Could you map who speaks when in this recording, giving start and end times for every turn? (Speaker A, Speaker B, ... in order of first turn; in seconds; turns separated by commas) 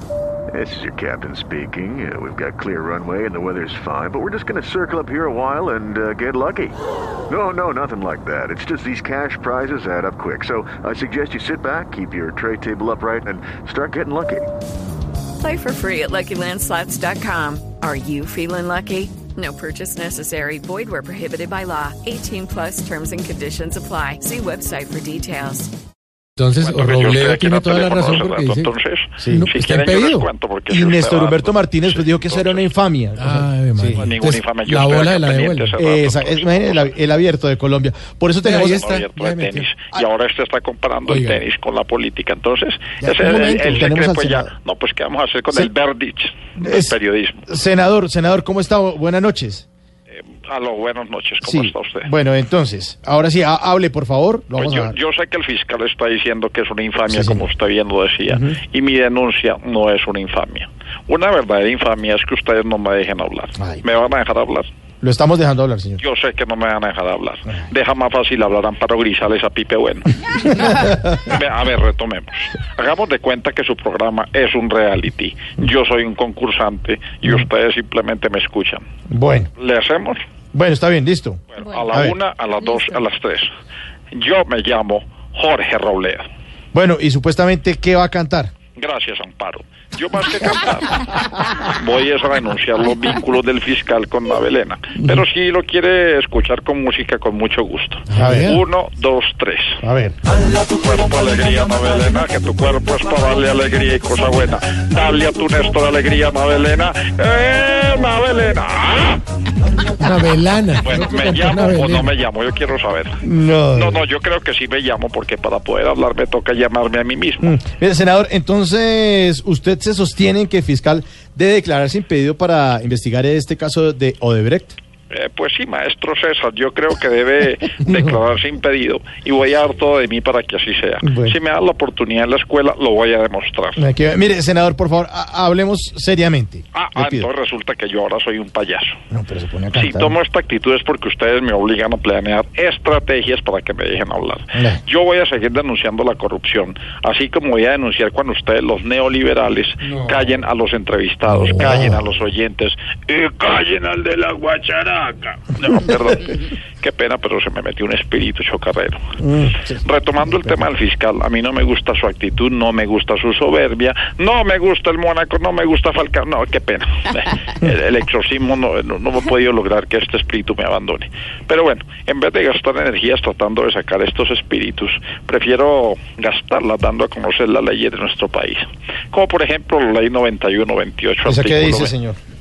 Speaker A: 0.5-6.8, Speaker A: 7.3-14.5, Speaker B: 15.4-25.7, Speaker C: 26.4-28.7, Speaker D: 26.6-32.6, Speaker E: 29.2-29.5, Speaker C: 29.2-30.3, Speaker E: 30.7-34.4, Speaker C: 33.2-35.7, Speaker D: 34.0-36.9, Speaker E: 35.8-38.9, Speaker C: 38.4-39.7, Speaker D: 38.5-47.5, Speaker C: 41.1-41.4, Speaker E: 43.0-44.5, Speaker E: 46.6-47.0, Speaker E: 47.5-49.7, Speaker D: 50.1-52.1, Speaker E: 51.4-55.0, Speaker D: 54.6-64.7, Speaker E: 57.1-57.5, Speaker E: 58.3-58.6, Speaker E: 63.6-63.8, Speaker E: 65.0-66.0, Speaker D: 66.0-78.9, Speaker E: 70.5-71.2, Speaker E: 79.1-79.5, Speaker D: 79.6-80.2, Speaker E: 80.5-82.2, Speaker D: 81.5-83.5, Speaker D: 84.1-86.3, Speaker E: 86.7-88.5, Speaker D: 88.8-99.8, Speaker C: 98.1-98.6, Speaker E: 98.1-98.6, Speaker E: 99.8-100.2, Speaker D: 100.6-109.2, Speaker C: 110.0-112.1, Speaker D: 110.8-113.2, Speaker E: 113.2-114.1, Speaker D: 113.7-117.6, Speaker E: 117.4-124.8, Speaker D: 125.1-133.8, Speaker E: 131.0-131.4, Speaker E: 133.8-137.3, Speaker D: 136.7-139.0, Speaker E: 139.1-140.2, Speaker D: 139.7-159.1, Speaker E: 144.5-144.8, Speaker E: 151.5-152.0, Speaker E: 159.2-159.8, Speaker D: 159.8-181.9, Speaker E: 181.3-182.2